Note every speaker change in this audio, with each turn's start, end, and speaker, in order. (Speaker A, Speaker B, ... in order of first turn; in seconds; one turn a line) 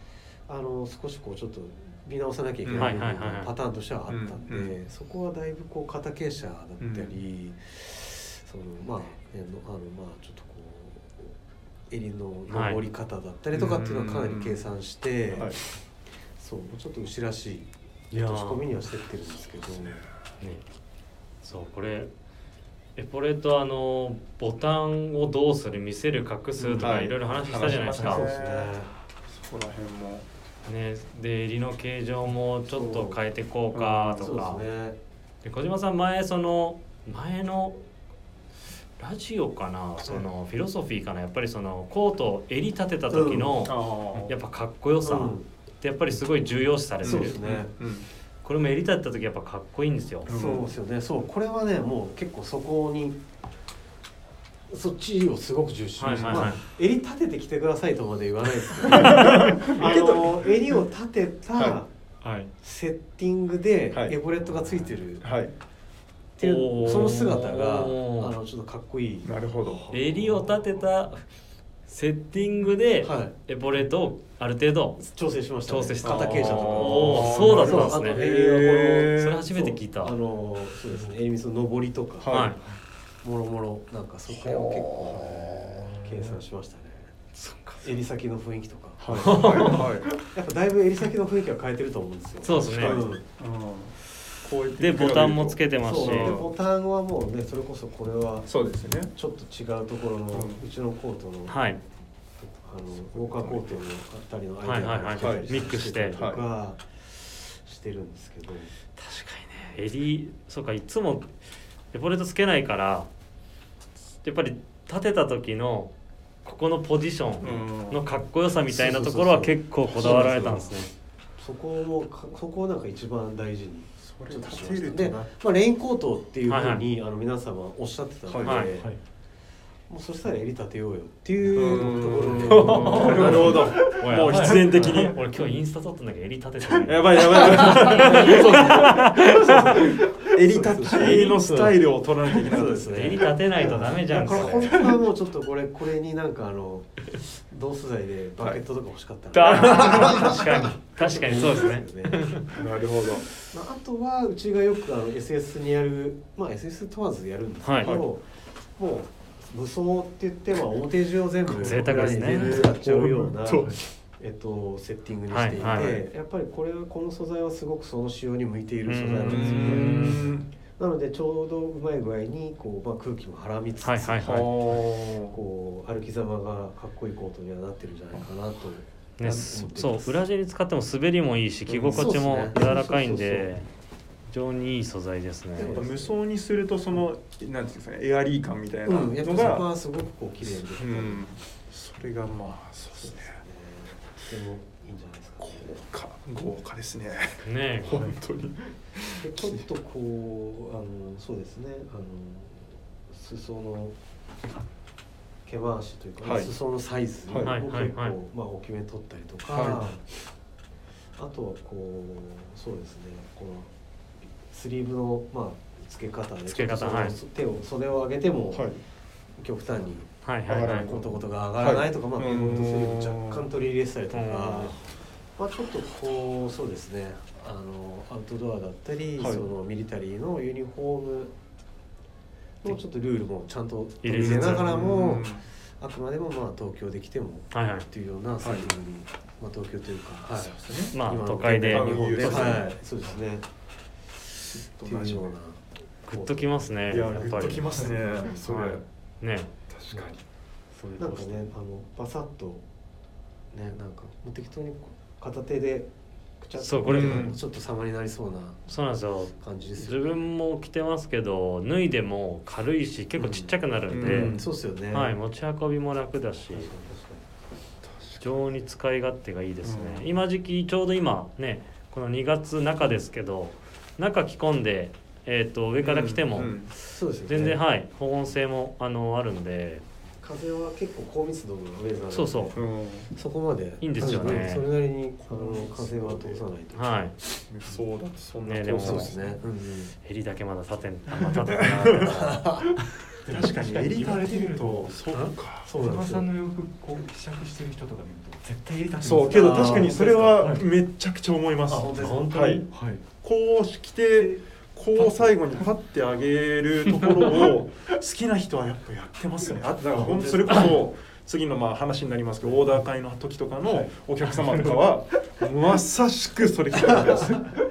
Speaker A: 0.5-11.3
Speaker B: 2.6-3.0
Speaker C: 2.8-3.5
Speaker B: 4.1-4.7
Speaker B: 6.8-7.1
Speaker A: 11.9-15.6
Speaker C: 12.5-12.8
Speaker B: 13.5-14.6
Speaker B: 15.3-15.6
Speaker A: 16.4-20.1
Speaker C: 18.1-18.6
Speaker C: 21.4-22.1
Speaker C: 23.0-28.3
Speaker A: 26.6-27.0
Speaker B: 26.8-28.7
Speaker A: 27.9-28.9
Speaker B: 29.3-30.3
Speaker C: 30.6-34.6
Speaker A: 32.7-33.2
Speaker B: 33.7-34.5
Speaker A: 34.2-35.0
Speaker C: 35.4-37.8
Speaker C: 39.0-47.4
Speaker A: 43.1-43.7
Speaker B: 43.6-44.3
Speaker A: 45.0-45.5
Speaker B: 47.0-48.1
Speaker A: 47.0-47.7
Speaker C: 48.4-50.3
Speaker B: 50.3-50.7
Speaker A: 50.3-53.2
Speaker A: 54.7-61.9
Speaker C: 56.0-56.6
Speaker B: 56.0-56.5
Speaker B: 58.9-60.8
Speaker C: 58.9-59.5
Speaker A: 62.6-65.3
Speaker B: 65.2-65.5
Speaker A: 66.4-69.3
Speaker C: 66.4-68.3
Speaker B: 66.9-67.2
Speaker B: 69.2-69.9
Speaker D: 69.8-70.4
Speaker C: 69.9-71.2
Speaker C: 71.9-75.1
Speaker A: 73.0-73.3
Speaker A: 75.0-82.5
Speaker C: 75.7-78.2
Speaker B: 76.0-79.4
Speaker C: 79.1-80.2
Speaker B: 82.2-82.6
Speaker C: 82.3-82.6
Speaker A: 83.2-87.1
Speaker B: 84.3-86.3
Speaker C: 87.3-87.9
Speaker A: 87.8-93.2
Speaker B: 89.0-90.2
Speaker C: 89.2-89.9
Speaker C: 92.4-93.0
Speaker B: 92.5-96.5
Speaker C: 94.8-96.4
Speaker A: 95.8-98.5
Speaker B: 98.5-99.1
Speaker A: 99.1-101.7
Speaker B: 100.3-100.6
Speaker C: 101.5-101.8
Speaker A: 102.4-108.7
Speaker B: 103.0-103.8
Speaker C: 104.6-106.2
Speaker B: 105.2-105.6
Speaker B: 106.2-106.4
Speaker C: 109.0-111.3
Speaker C: 111.9-113.1
Speaker C: 114.2-115.9
Speaker C: 116.5-120.9
Speaker B: 117.4-118.0
Speaker A: 118.7-120.8
Speaker A: 121.4-128.9
Speaker B: 124.0-125.3
Speaker C: 126.5-126.8
Speaker B: 128.3-128.7
Speaker C: 128.4-128.7
Speaker A: 129.9-133.8
Speaker B: 131.5-135.2
Speaker C: 132.4-140.0
Speaker D: 132.6-134.6
Speaker A: 134.7-135.1
Speaker B: 136.8-143.3
Speaker A: 137.1-152.4
Speaker C: 142.9-144.8
Speaker B: 144.2-144.8
Speaker C: 149.3-152.6
Speaker B: 149.4-150.3
Speaker B: 152.5-153.3
Speaker A: 153.4-158.2
Speaker C: 157.6-157.9
Speaker A: 158.8-180.2
Speaker B: 161.5-163.8
Speaker C: 161.6-162.7
Speaker C: 165.3-166.0
Speaker C: 168.9-170.2
Speaker B: 169.3-170.5
Speaker C: 173.8-174.5
Speaker B: 174.2-175.4
Speaker C: 179.2-183.7
Speaker A: 181.7-183.5
Speaker B: 181.7-182.1
Speaker C: 184.3-185.8
Speaker A: 185.6-186.2
Speaker B: 185.6-189.7
Speaker A: 188.8-191.3
Speaker B: 190.6-193.3
Speaker A: 193.0-195.8
Speaker B: 195.4-199.6
Speaker C: 197.4-198.1
Speaker A: 199.2-204.0
Speaker A: 205.4-210.1
Speaker B: 206.2-206.5
Speaker B: 207.3-207.6
Speaker C: 207.4-208.2
Speaker B: 209.5-209.9
Speaker A: 211.2-213.7
Speaker A: 214.5-218.7
Speaker C: 216.5-217.2
Speaker B: 218.5-218.8
Speaker A: 219.4-224.8
Speaker C: 220.2-220.9
Speaker B: 220.5-223.4
Speaker C: 224.1-224.8
Speaker A: 225.4-231.3
Speaker B: 229.2-229.4
Speaker A: 232.6-243.5
Speaker C: 234.0-234.7
Speaker B: 234.1-235.4
Speaker C: 237.5-237.9
Speaker B: 238.4-238.7
Speaker B: 240.3-242.8
Speaker C: 240.9-242.7
Speaker B: 244.4-245.3
Speaker A: 244.8-246.5
Speaker C: 246.1-247.9
Speaker B: 246.9-248.8
Speaker A: 247.1-247.4
Speaker C: 248.4-249.5
Speaker B: 249.7-250.2
Speaker D: 250.8-251.4
Speaker A: 251.0-252.6
Speaker A: 253.5-258.6
Speaker C: 256.6-257.3
Speaker B: 256.9-257.4
Speaker C: 258.7-266.7
Speaker A: 259.4-260.2
Speaker A: 263.2-265.2
Speaker B: 263.9-264.5
Speaker A: 266.5-267.2
Speaker B: 267.8-268.5
Speaker C: 268.2-276.7
Speaker B: 269.6-270.1
Speaker B: 275.8-276.7
Speaker A: 276.8-277.6
Speaker C: 277.3-279.8
Speaker A: 280.2-287.1
Speaker C: 282.1-282.6
Speaker B: 282.5-283.1
Speaker C: 283.8-284.7
Speaker B: 284.0-284.5
Speaker B: 285.2-286.4
Speaker C: 286.7-287.1
Speaker B: 287.5-289.4
Speaker C: 288.4-289.2
Speaker A: 288.8-289.9
Speaker C: 290.0-292.4
Speaker B: 291.2-292.2
Speaker A: 291.9-292.7
Speaker D: 293.2-300.7
Speaker B: 293.3-295.7
Speaker A: 295.1-296.3
Speaker B: 299.0-302.7
Speaker A: 299.3-300.1
Speaker A: 301.7-302.7
Speaker D: 302.0-303.0
Speaker B: 303.2-317.5
Speaker D: 304.9-305.7
Speaker D: 306.9-307.6
Speaker D: 309.9-310.8
Speaker D: 312.4-312.8
Speaker D: 313.6-315.0
Speaker D: 317.1-317.6